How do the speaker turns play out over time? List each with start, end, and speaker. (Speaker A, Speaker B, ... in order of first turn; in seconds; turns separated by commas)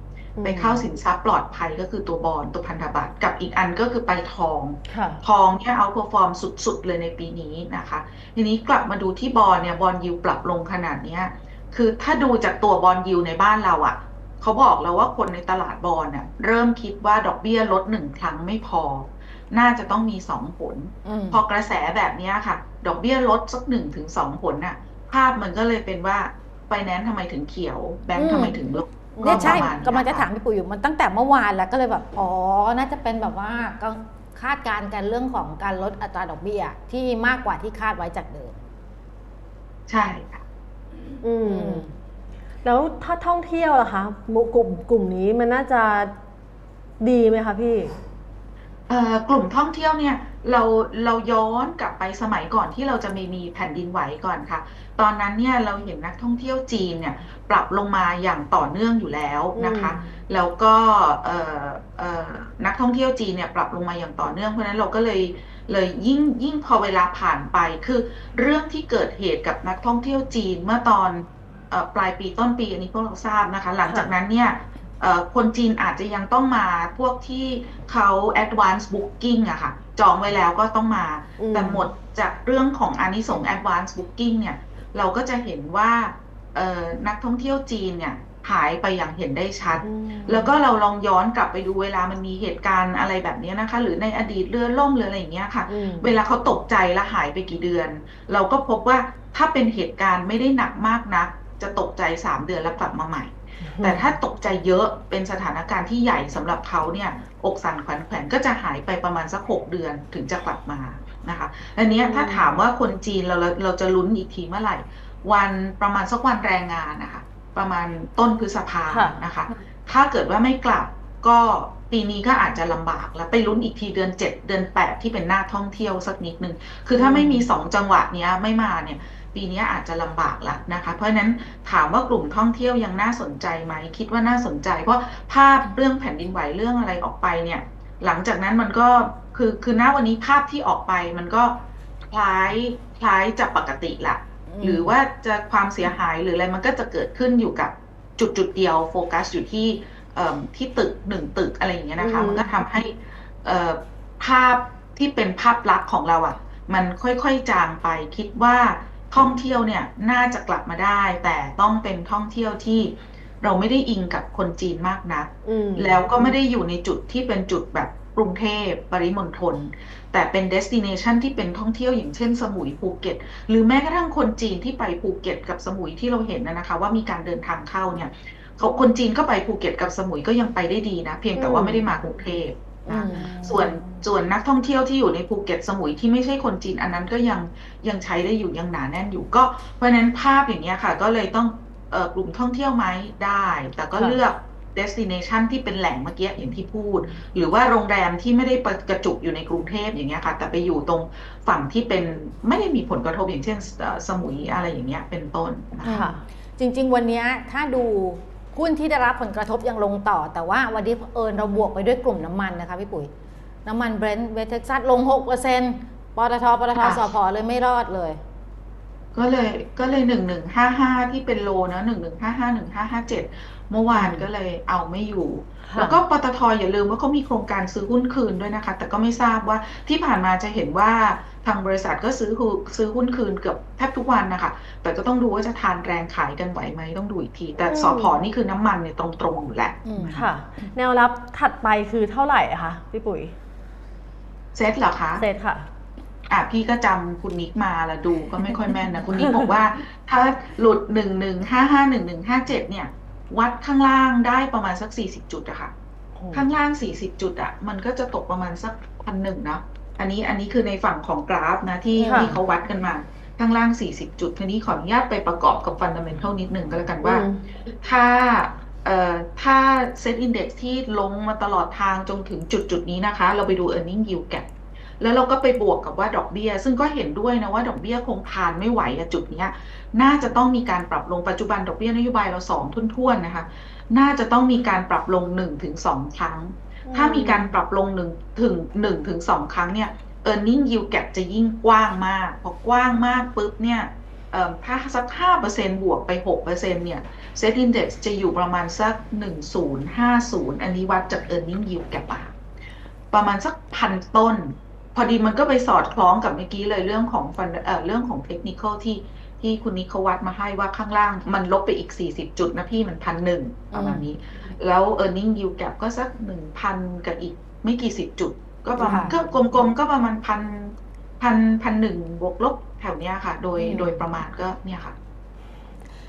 Speaker A: 0.4-0.9, Speaker B: 0.4-30.3, Speaker A: 4.9-5.2, Speaker C: 21.0-21.4, Speaker C: 28.2-28.6, Speaker A: 29.1-29.6, Speaker C: 29.2-38.6, Speaker B: 39.9-40.4, Speaker A: 41.2-41.9, Speaker C: 41.5-41.9, Speaker A: 42.6-46.1, Speaker A: 47.0-47.9, Speaker B: 48.9-206.0, Speaker A: 59.5-60.0, Speaker A: 81.4-81.8, Speaker A: 89.8-90.5, Speaker A: 95.7-96.2, Speaker A: 103.7-104.1, Speaker A: 111.8-112.6, Speaker A: 118.9-119.2, Speaker A: 126.9-127.5, Speaker C: 144.5-144.9, Speaker A: 152.0-152.5, Speaker A: 165.4-166.1, Speaker A: 181.3-181.9, Speaker C: 182.9-184.1, Speaker A: 205.8-206.2, Speaker C: 205.8-213.1, Speaker C: 213.7-218.2, Speaker B: 216.8-217.1, Speaker B: 219.1-240.3, Speaker A: 223.9-224.3, Speaker A: 225.7-226.0, Speaker A: 237.6-238.2, Speaker C: 239.8-240.1, Speaker A: 240.1-243.3, Speaker B: 244.5-245.2, Speaker A: 245.2-245.7, Speaker B: 246.3-255.7, Speaker A: 249.2-249.5, Speaker A: 256.2-256.5, Speaker B: 256.3-274.5, Speaker C: 262.0-262.4, Speaker A: 262.0-262.4, Speaker A: 267.0-267.4, Speaker B: 275.0-302.3, Speaker A: 286.9-287.6, Speaker B: 303.1-325.0, Speaker C: 313.7-314.1, Speaker C: 318.8-319.1, Speaker C: 323.6-324.0